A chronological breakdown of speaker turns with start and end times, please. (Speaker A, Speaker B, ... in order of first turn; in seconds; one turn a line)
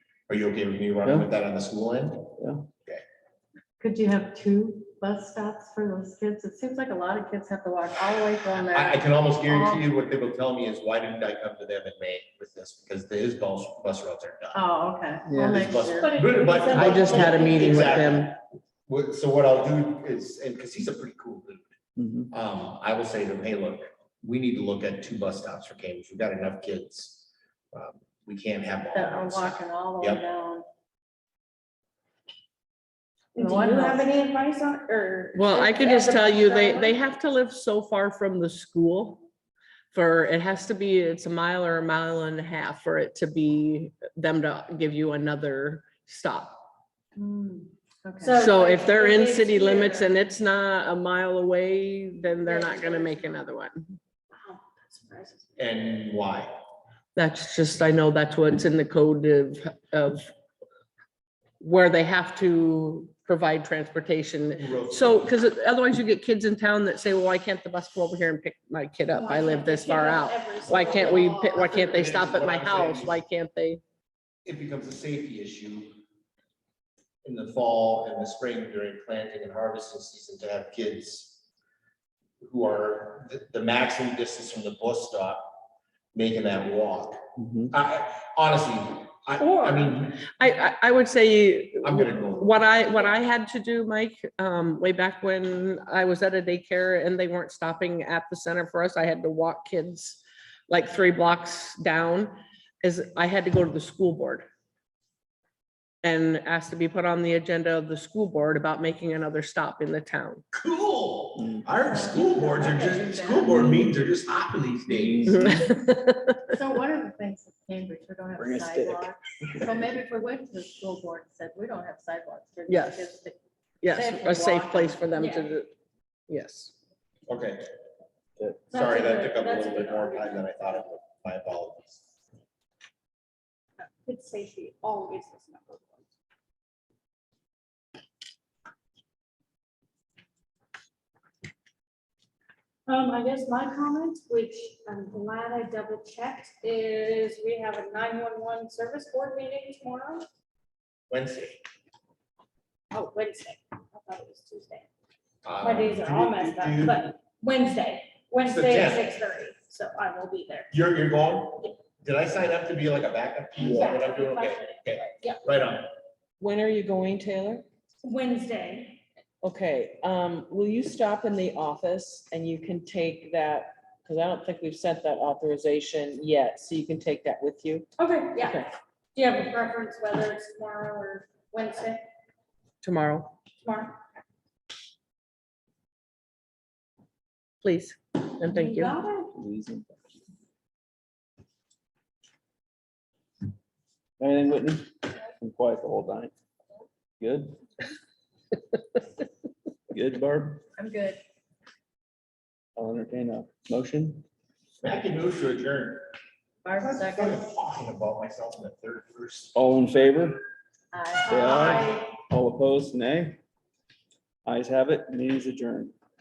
Speaker A: 0.3-3.0
Speaker B: 2.4-2.7
Speaker C: 3.8-9.8
Speaker A: 8.5-14.7
Speaker C: 14.5-17.4
Speaker D: 15.3-15.6
Speaker A: 15.4-21.8
Speaker E: 16.0-18.2
Speaker D: 16.7-18.3
Speaker B: 22.0-22.3
Speaker A: 22.3-30.2
Speaker C: 28.9-30.6
Speaker E: 33.3-37.0
Speaker C: 33.4-34.1
Speaker D: 35.3-39.3
Speaker D: 39.9-46.6
Speaker C: 47.2-48.5
Speaker E: 48.2-50.1
Speaker D: 48.4-54.0
Speaker E: 52.4-53.4
Speaker E: 54.3-55.5
Speaker A: 55.6-56.5
Speaker D: 57.1-60.3
Speaker D: 61.6-73.8
Speaker A: 64.5-65.3
Speaker E: 69.1-71.9
Speaker A: 71.4-73.2
Speaker A: 74.5-76.0
Speaker A: 77.2-81.4
Speaker A: 82.4-85.6
Speaker A: 86.1-90.2
Speaker B: 87.4-87.7
Speaker E: 89.4-90.0
Speaker D: 90.2-104.5
Speaker A: 91.8-92.7
Speaker D: 106.0-110.4
Speaker A: 110.5-115.5
Speaker B: 111.4-111.7
Speaker C: 111.8-113.7
Speaker B: 113.5-113.9
Speaker B: 114.9-115.5
Speaker D: 115.3-116.6
Speaker C: 116.5-123.4
Speaker B: 118.4-119.7
Speaker D: 122.7-123.2
Speaker D: 123.8-125.7
Speaker C: 123.9-125.0
Speaker E: 125.1-125.6
Speaker D: 126.3-126.7
Speaker A: 127.3-127.7
Speaker E: 128.7-130.5
Speaker A: 128.7-132.1
Speaker E: 134.0-136.0
Speaker E: 142.9-150.3
Speaker A: 151.1-151.6
Speaker E: 152.9-154.9
Speaker A: 155.4-157.1
Speaker E: 155.6-160.7
Speaker A: 158.4-159.1
Speaker A: 160.7-165.9
Speaker E: 163.6-165.4
Speaker D: 166.4-167.7
Speaker E: 168.0-169.0
Speaker D: 169.4-177.9
Speaker E: 178.0-182.1
Speaker D: 178.4-178.7
Speaker D: 182.8-183.3
Speaker E: 183.6-184.0
Speaker D: 187.6-189.0
Speaker E: 188.4-189.3
Speaker B: 189.3-189.9
Speaker B: 194.2-196.3
Speaker B: 197.2-197.6
Speaker B: 199.9-200.6
Speaker C: 200.8-201.2
Speaker B: 202.8-204.2
Speaker A: 204.8-206.1
Speaker C: 206.6-207.5
Speaker A: 206.8-209.6
Speaker B: 209.6-210.4
Speaker C: 210.9-212.0
Speaker E: 211.3-212.2
Speaker B: 211.3-213.4
Speaker B: 214.4-215.9